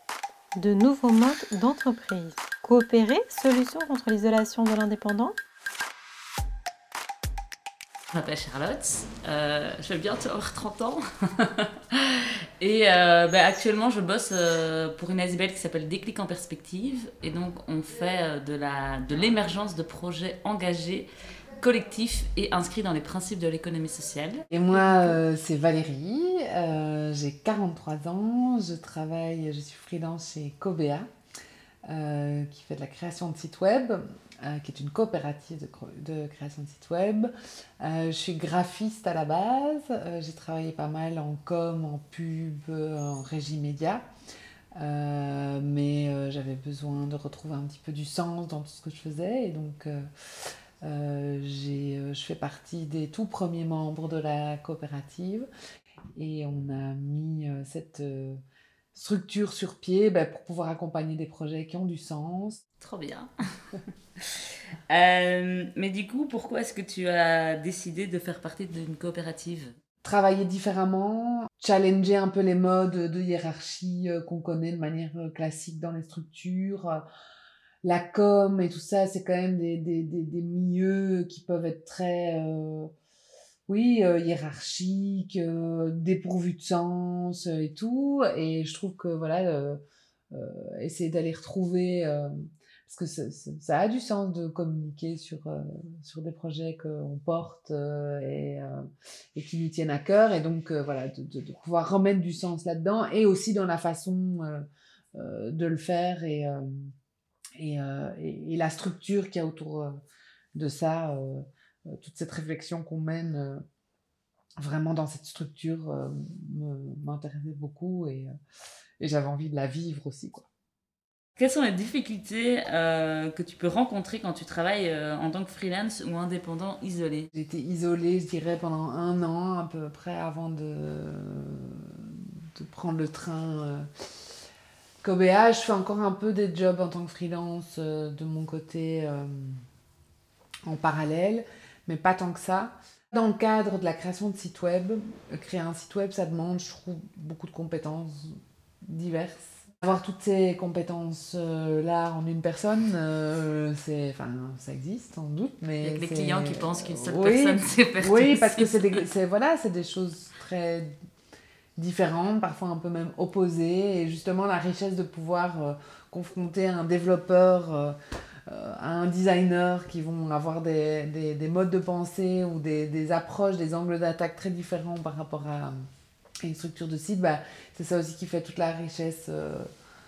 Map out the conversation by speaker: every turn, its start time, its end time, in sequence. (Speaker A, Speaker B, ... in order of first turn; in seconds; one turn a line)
Speaker A: 0.6-5.3
Speaker B: 8.1-24.4
Speaker C: 24.5-31.1
Speaker A: 24.8-25.1
Speaker C: 31.9-44.0
Speaker C: 44.8-50.1
Speaker C: 50.8-55.5
Speaker C: 56.2-58.4
Speaker C: 58.9-62.6
Speaker B: 62.8-64.3
Speaker B: 64.9-69.7
Speaker C: 70.0-77.0
Speaker C: 77.8-82.9
Speaker C: 83.7-89.8
Speaker C: 90.3-92.3
Speaker C: 92.8-98.8
Speaker C: 99.3-104.6
Speaker C: 105.1-106.8
Speaker C: 107.6-110.0
Speaker C: 110.5-113.6
Speaker C: 114.6-118.3
Speaker C: 119.0-120.5
Speaker B: 121.4-127.3
Speaker C: 127.3-133.9
Speaker C: 135.0-139.6
Speaker C: 140.7-160.9
Speaker B: 155.8-159.0
Speaker C: 161.8-167.9
Speaker C: 168.5-175.7
Speaker C: 176.4-179.7